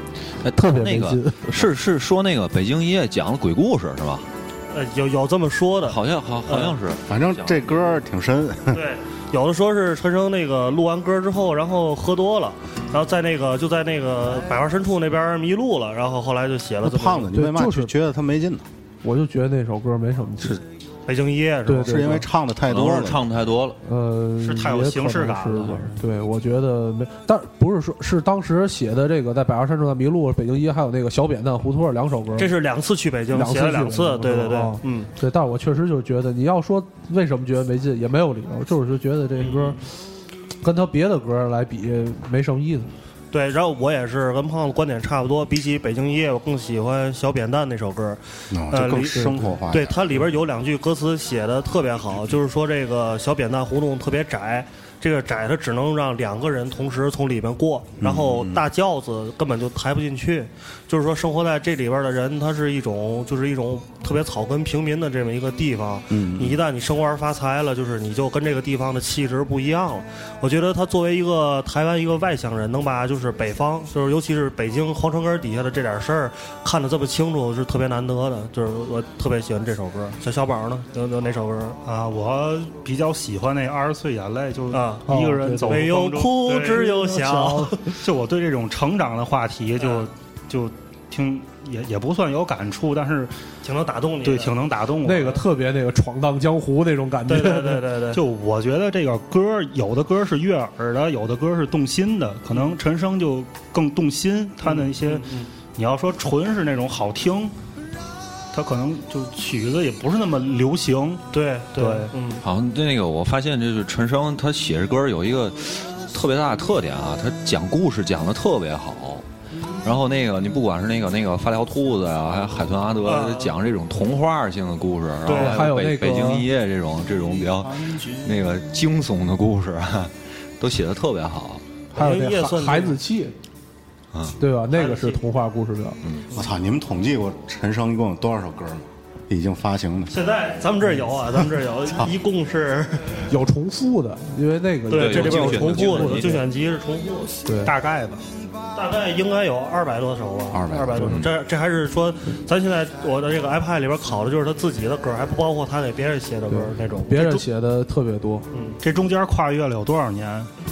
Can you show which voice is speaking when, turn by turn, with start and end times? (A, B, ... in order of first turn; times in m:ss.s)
0:00.4-0:04.3 A
0:00.6-0:01.6 B
0:04.7-0:06.8 C
0:05.8-0:07.9 A
0:07.0-0:08.8 D
0:08.7-0:17.3 C
0:16.8-0:18.6 D
0:17.3-0:17.9 B
0:19.0-0:20.6 B
0:21.0-0:22.2 C
0:21.6-0:22.2 B
0:21.8-0:23.2 D
0:22.7-0:23.8 A
0:23.8-0:32.5 B
0:24.4-0:25.9 E
0:32.4-0:35.1 C
0:33.3-0:39.8 B
0:39.4-0:39.8 C
0:40.6-0:42.9 B
0:43.3-1:21.8 C
0:48.5-0:50.2 D
0:49.1-0:49.5 B
0:58.0-0:58.6 D
1:06.1-1:06.6 D
1:21.8-1:26.9 E
1:24.7-1:27.8 C
1:25.1-1:25.9 B
1:26.7-1:27.9 B
1:27.9-1:33.3 E
1:29.8-1:30.0 C
1:33.6-1:34.5 C
1:34.2-1:35.4 E
1:35.0-1:37.9 B
1:37.3-1:38.2 C
1:38.1-1:47.5 E
1:44.6-1:45.5 C
1:48.5-1:52.1 E
1:51.3-1:52.4 C
1:52.4-1:59.2 A
1:59.8-2:11.6 A
2:03.0-2:03.5 C
2:05.2-2:05.6 C
2:05.3-2:06.5 B
2:11.9-2:13.0 C
2:11.9-2:13.3 B
2:14.4-2:16.0 B
2:14.7-2:15.2 C
2:16.3-2:20.1 D
2:20.1-2:23.3 C
2:23.3-2:26.4 B
2:24.9-2:27.4 C
2:24.9-2:26.4 A
2:27.4-2:27.7 B
2:27.6-2:28.2 E
2:28.7-2:37.4 C
2:30.5-2:31.2 D
2:31.0-2:31.3 A
2:36.5-2:38.5 B
2:38.5-2:38.8 C
2:38.8-2:40.5 E